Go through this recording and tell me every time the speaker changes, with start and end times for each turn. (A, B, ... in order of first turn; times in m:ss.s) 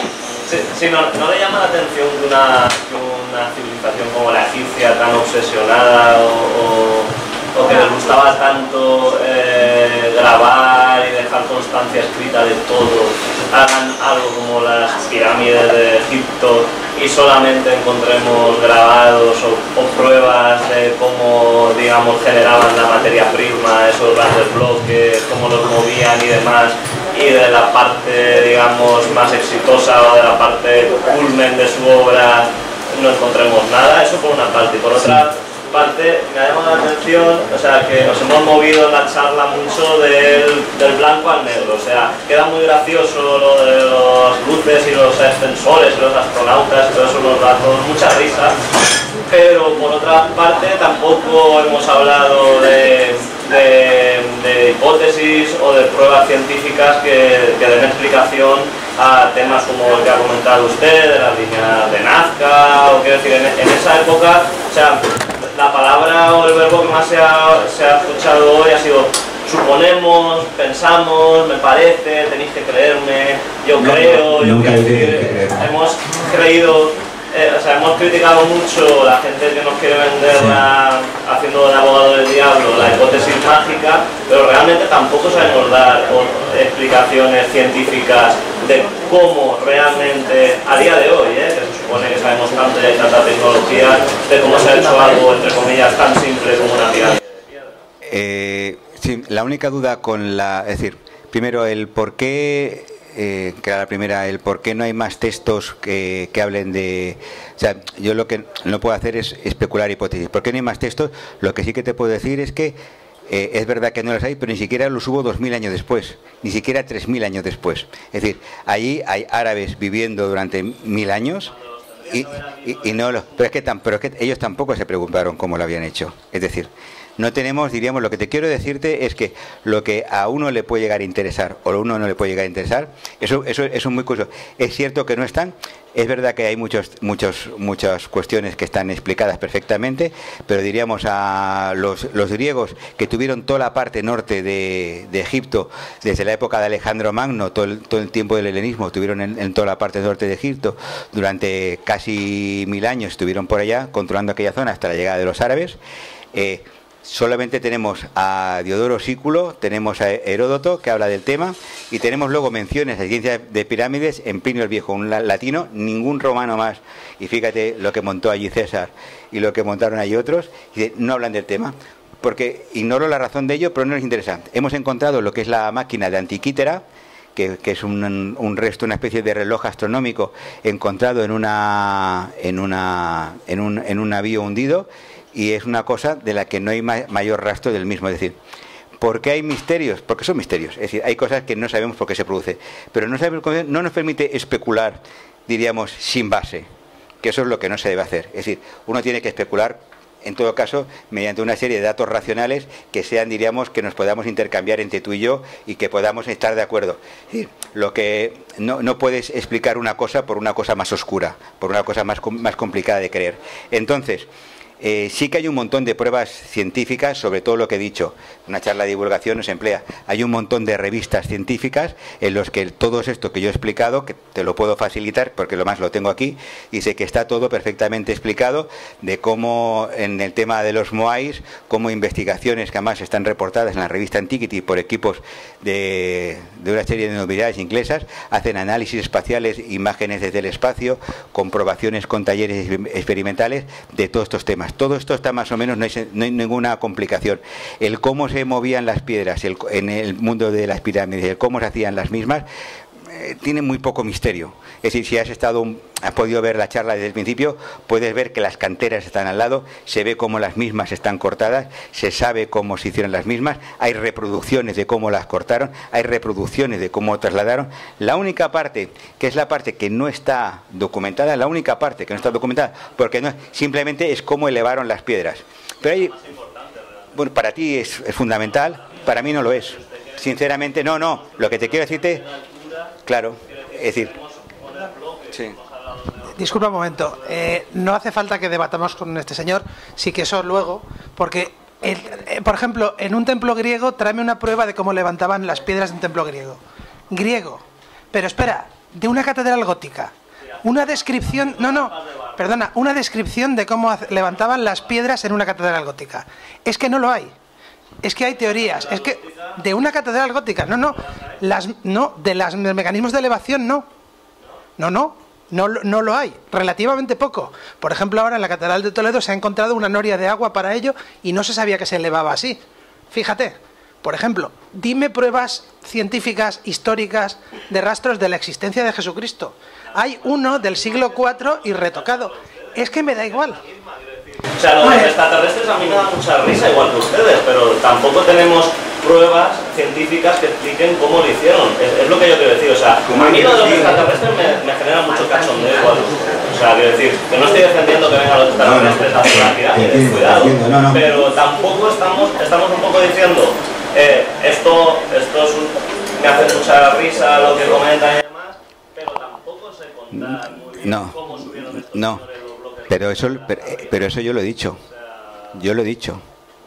0:00.4-0:48.6 A
0:49.3-1:37.8 A
1:13.8-1:15.7 B
1:20.3-1:20.6 B
1:38.0-2:01.5 B
2:01.6-2:03.4 A
2:02.1-2:35.8 B
2:36.3-2:56.8 B
2:57.4-3:08.4 B
3:09.0-3:16.7 B
3:17.2-3:34.3 B
3:34.8-4:12.4 B
4:13.0-4:36.1 B
4:35.9-4:37.1 A
4:37.1-4:42.2 B
4:38.6-4:42.9 A
4:43.0-4:44.1 B
4:43.4-4:47.4 A
4:46.3-4:56.6 C
4:57.1-5:00.1 C
5:00.6-5:07.3 C
5:00.6-5:02.6 A
5:08.0-5:13.8 C
5:08.5-5:09.6 A
5:11.0-5:11.4 A
5:14.8-5:33.6 C
5:30.0-6:04.1 A
5:34.8-5:35.1 C
5:43.0-5:44.0 B
5:48.6-5:51.0 B
6:00.1-6:01.4 B
6:01.9-6:02.2 B
6:02.9-6:04.8 B
6:04.9-6:05.5 A
6:05.5-6:06.2 B